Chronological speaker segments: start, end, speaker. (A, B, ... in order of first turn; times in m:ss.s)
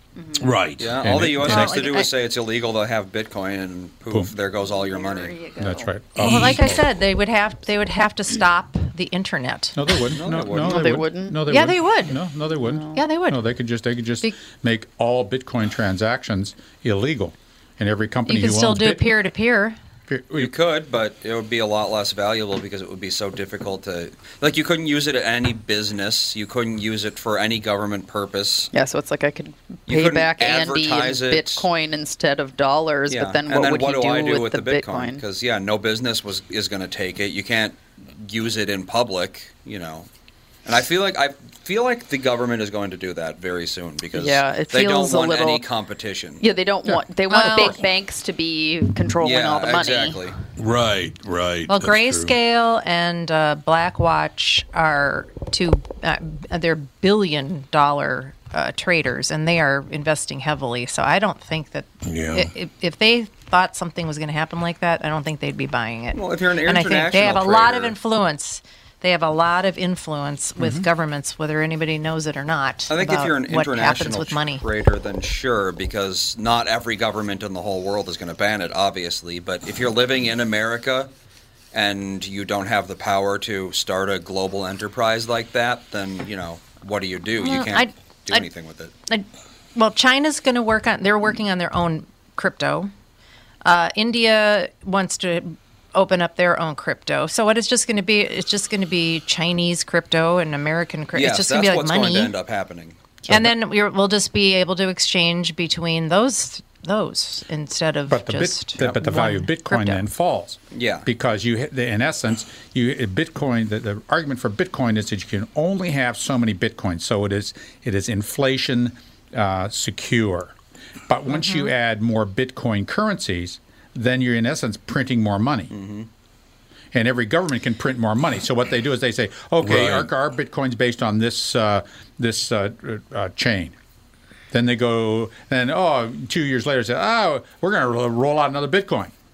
0:00.2-0:00.5 A
0:00.4-0:01.5 B
0:00.8-0:05.4 C
0:01.0-0:01.8 D
0:01.4-0:02.1 E
0:04.6-0:05.9 A
0:05.6-0:06.8 D
0:06.2-0:09.8 E
0:06.2-0:06.6 B
0:09.7-0:19.1 D
0:10.1-0:11.0 C
0:10.5-0:11.5 A
0:11.4-0:12.2 E
0:12.5-0:13.0 A
0:12.9-0:13.4 E
0:18.3-0:19.8 E
0:20.1-0:20.5 D
0:20.4-0:28.7 C
0:28.7-0:35.2 A
0:29.9-0:31.7 C
0:33.1-0:40.1 C
0:40.6-0:46.4 C
0:44.1-0:45.6 A
0:46.4-0:50.2 A
0:47.3-0:47.8 E
0:49.2-0:50.4 C
0:50.6-0:52.3 B
0:51.7-1:14.6 E
1:02.0-1:02.5 B
1:06.1-1:07.9 C
1:12.9-1:21.1 C
1:21.7-1:28.9 C
1:27.4-1:28.5 E
1:29.1-1:32.9 E
1:33.6-1:42.3 E
1:41.1-1:43.0 C
1:43.3-1:43.5 D
1:43.3-1:50.0 E
1:48.1-2:00.5 D
1:50.7-1:51.0 C
2:01.1-2:05.7 D
2:01.3-2:01.7 E
2:05.7-2:06.1 C
2:06.9-2:13.7 D
2:09.6-2:10.1 B
2:14.5-2:19.1 D